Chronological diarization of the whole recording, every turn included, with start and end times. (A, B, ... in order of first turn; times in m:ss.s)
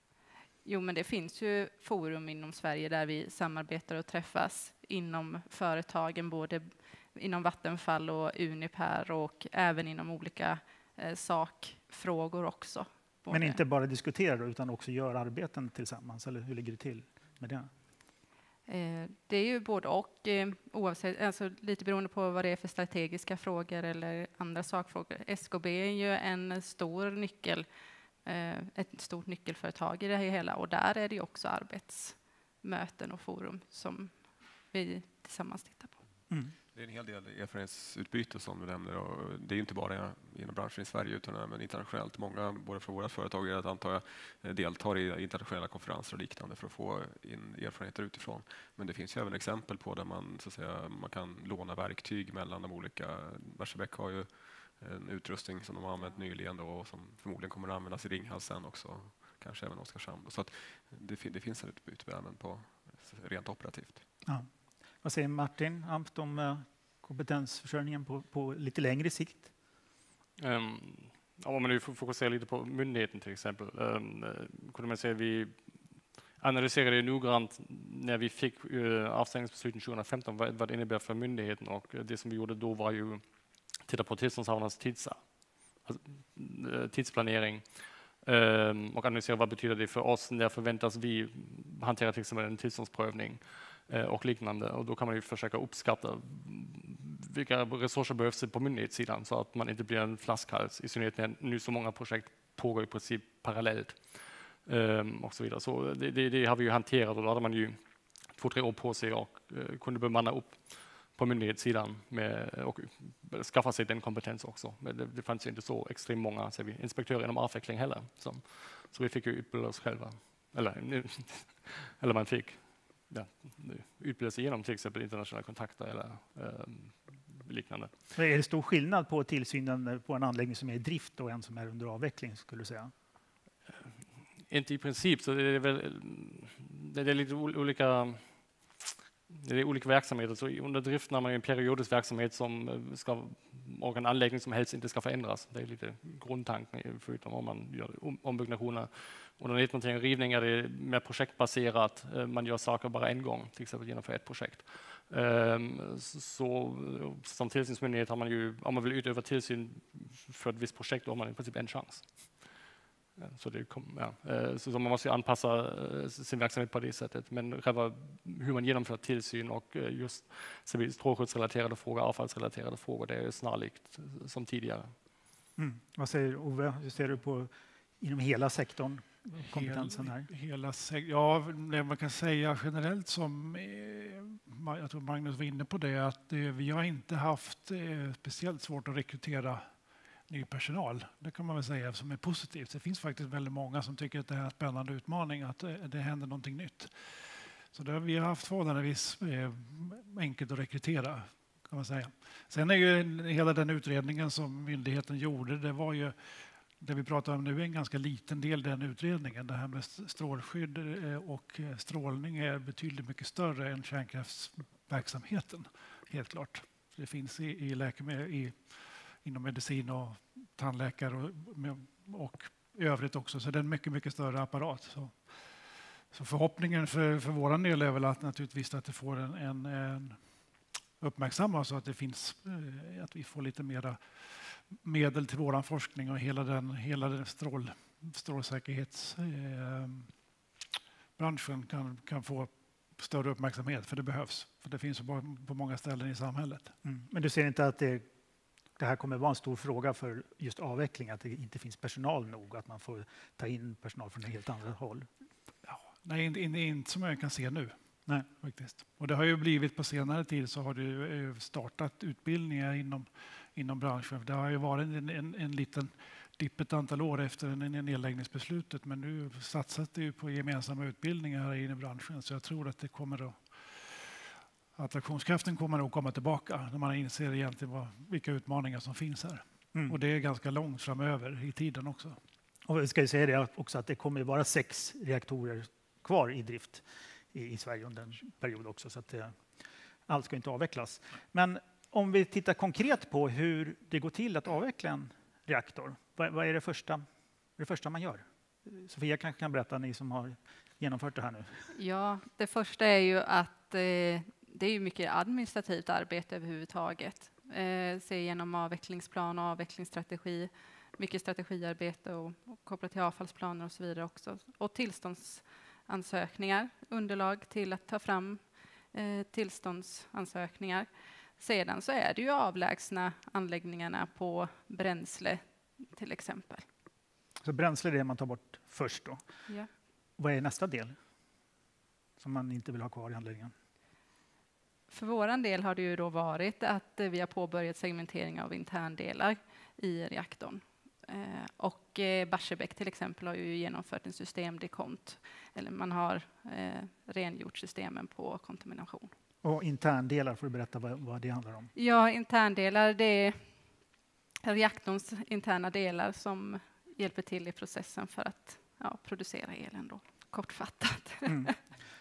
0:00.6-0:13.6 A
0:13.3-0:17.7 B
0:18.7-0:27.6 A
0:28.2-0:36.0 A
0:36.3-0:36.5 B
0:36.7-1:04.0 C
1:05.0-1:09.5 B
1:10.4-1:23.2 D
1:23.8-2:07.9 D
2:08.1-2:12.9 B
2:14.4-2:42.6 D
2:43.2-2:55.0 D
2:55.6-3:00.3 B
2:59.4-3:50.3 E
3:51.0-4:00.1 E
4:01.2-4:06.7 E
4:06.8-4:08.1 B
4:08.8-4:15.1 B
4:15.6-4:34.2 E
4:34.8-4:42.2 E
4:42.7-4:49.5 B
4:50.1-4:57.0 B
4:57.6-5:01.7 B
5:01.7-5:26.6 A
5:27.4-5:29.2 B
5:30.2-5:31.0 B
5:32.2-5:33.5 B
5:34.9-5:49.1 A
5:49.4-5:51.7 B
5:51.7-5:53.5 A
5:54.4-6:01.5 A